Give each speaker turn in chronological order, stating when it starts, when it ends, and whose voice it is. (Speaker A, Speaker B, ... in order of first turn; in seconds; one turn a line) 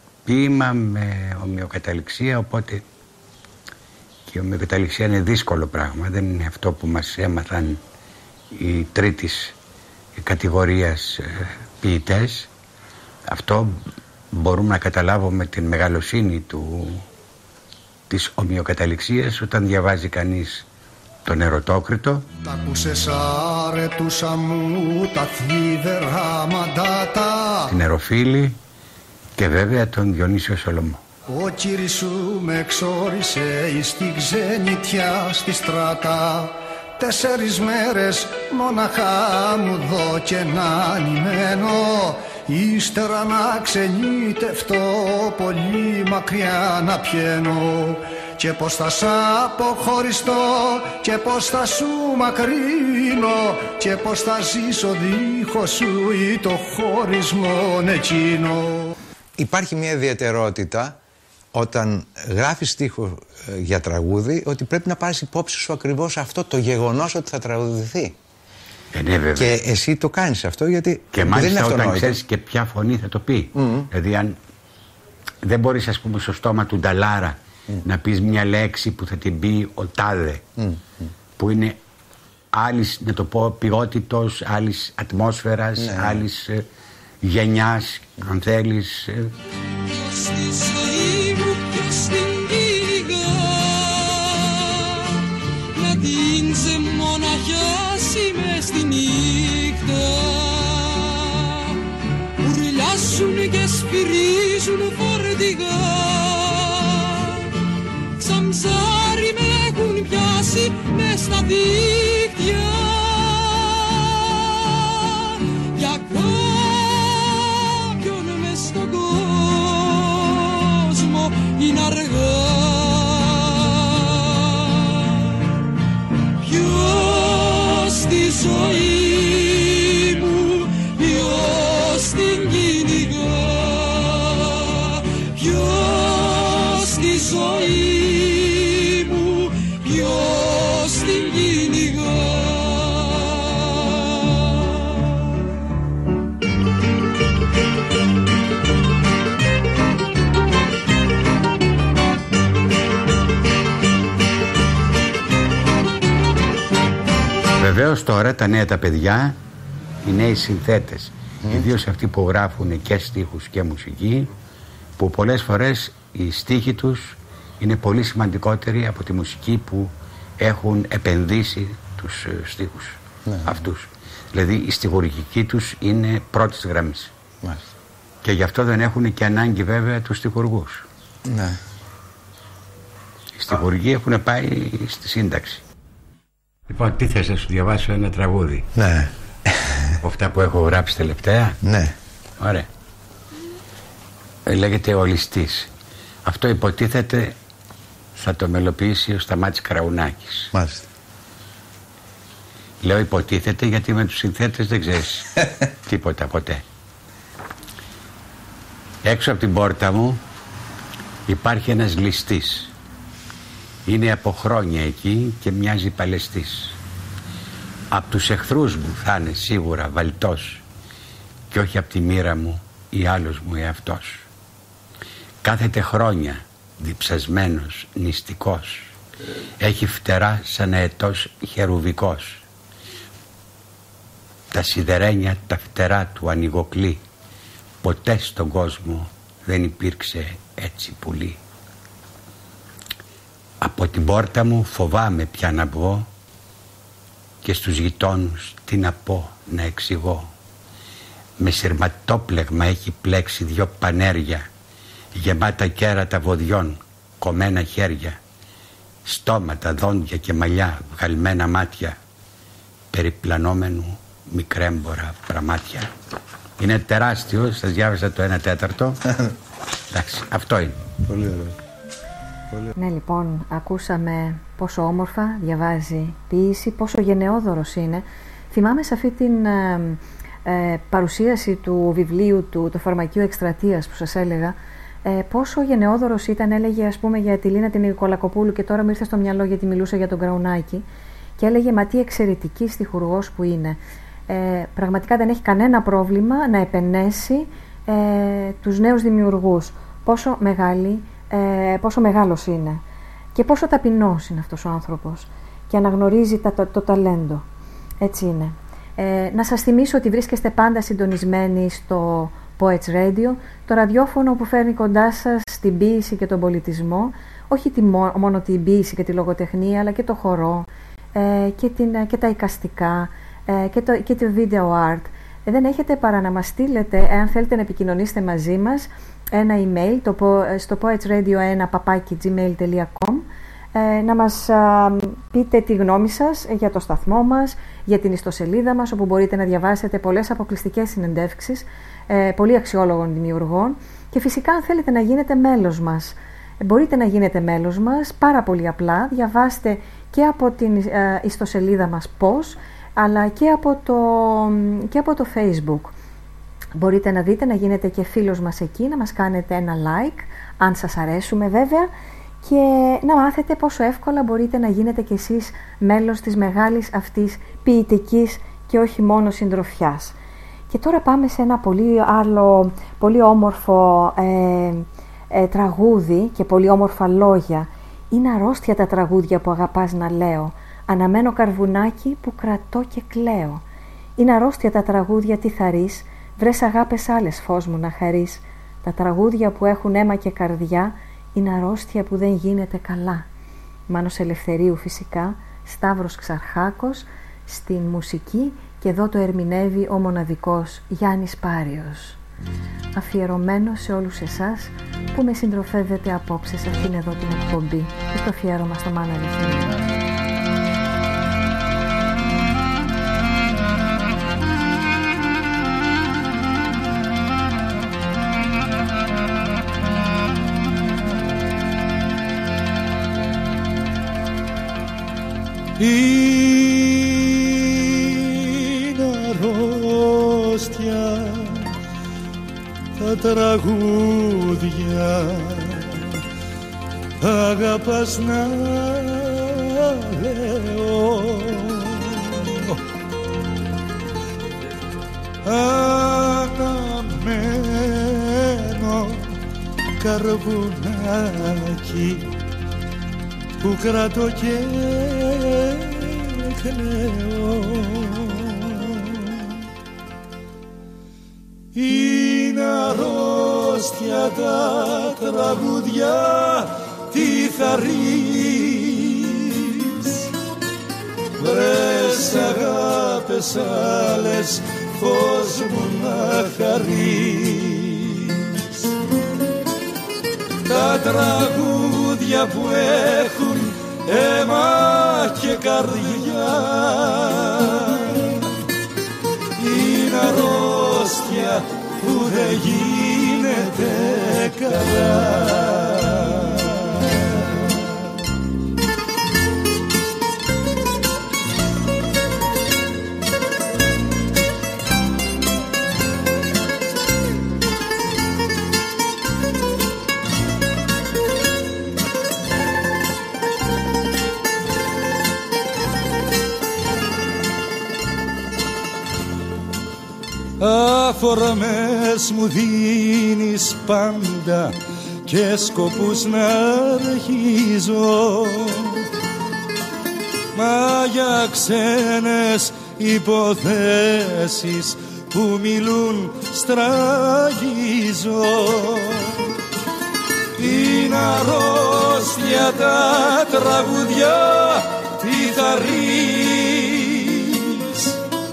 Speaker A: 0.2-2.8
Speaker A: 4.3-7.8
Speaker A: 8.5-9.5
Speaker A: 10.2-12.5
Speaker A: 13.3-13.7
Speaker A: 14.3-17.0
Speaker A: 18.1-20.6
Speaker A: 21.2-22.2
Speaker B: 22.4-27.7
Speaker A: 27.7-28.6
Speaker A: 29.4-31.0
Speaker B: 31.3-58.9
Speaker C: 59.4-61.0
Speaker C: 61.5-68.2
Speaker A: 68.9-69.6
Speaker C: 69.3-72.2
Speaker A: 71.1-74.4
Speaker C: 73.5-73.9
Speaker A: 75.4-80.4
Speaker A: 81.4-81.8
Speaker A: 82.5-86.6
Speaker C: 85.8-86.2
Speaker A: 87.2-89.3
Speaker D: 89.9-95.1
Speaker D: 95.7-101.8
Speaker D: 102.4-107.5
Speaker D: 108.2-125.2
Speaker D: 126.4-145.1
Speaker A: 157.6-159.4
Speaker A: 160.0-164.3
Speaker A: 165.0-177.1
Speaker C: 173.3-173.5
Speaker A: 178.2-180.8
Speaker C: 181.2-181.6
Speaker A: 183.3-185.6
Speaker A: 186.7-188.7
Speaker C: 188.8-189.1
Speaker A: 190.0-191.6
Speaker C: 191.6-191.9
Speaker A: 192.4-192.7
Speaker A: 194.4-195.7
Speaker A: 196.2-197.3
Speaker A: 198.2-200.5
Speaker C: 200.5-200.9
Speaker A: 202.8-205.3
Speaker A: 205.9-206.6
Speaker A: 209.0-210.2
Speaker A: 211.3-212.7
Speaker A: 213.9-216.8
Speaker A: 217.9-220.6
Speaker A: 221.5-224.2
Speaker A: 225.4-228.9
Speaker A: 229.6-232.4
Speaker A: 234.5-237.0
Speaker A: 237.8-241.4
Speaker A: 243.6-246.1
Speaker A: 247.4-250.3
Speaker A: 251.4-254.5
Speaker A: 255.1-258.2
Speaker A: 259.0-262.0
Speaker A: 262.9-265.9
Speaker A: 266.6-269.0
Speaker A: 269.9-270.8
Speaker C: 271.1-271.5
Speaker E: 272.7-290.8
Speaker E: 291.4-293.8
Speaker E: 294.3-302.8
Speaker E: 303.3-307.4
Speaker E: 308.0-355.9
Speaker E: 356.8-361.9
Speaker E: 362.4-370.1
Speaker E: 370.7-383.6
Speaker E: 384.2-393.2
Speaker E: 393.9-402.2
Speaker E: 402.9-409.8
Speaker F: 425.8-431.7
Speaker F: 433.0-436.1
Speaker F: 437.2-442.7
Speaker F: 445.4-449.3
Speaker F: 450.0-452.3
Speaker F: 453.6-459.4
Speaker F: 461.7-470.3
Speaker F: 471.4-478.9
Speaker F: 480.6-488.4
Speaker F: 489.6-497.2
Speaker F: 520.6-524.7
Speaker F: 525.2-529.0
Speaker F: 530.5-539.4
Speaker F: 540.6-548.1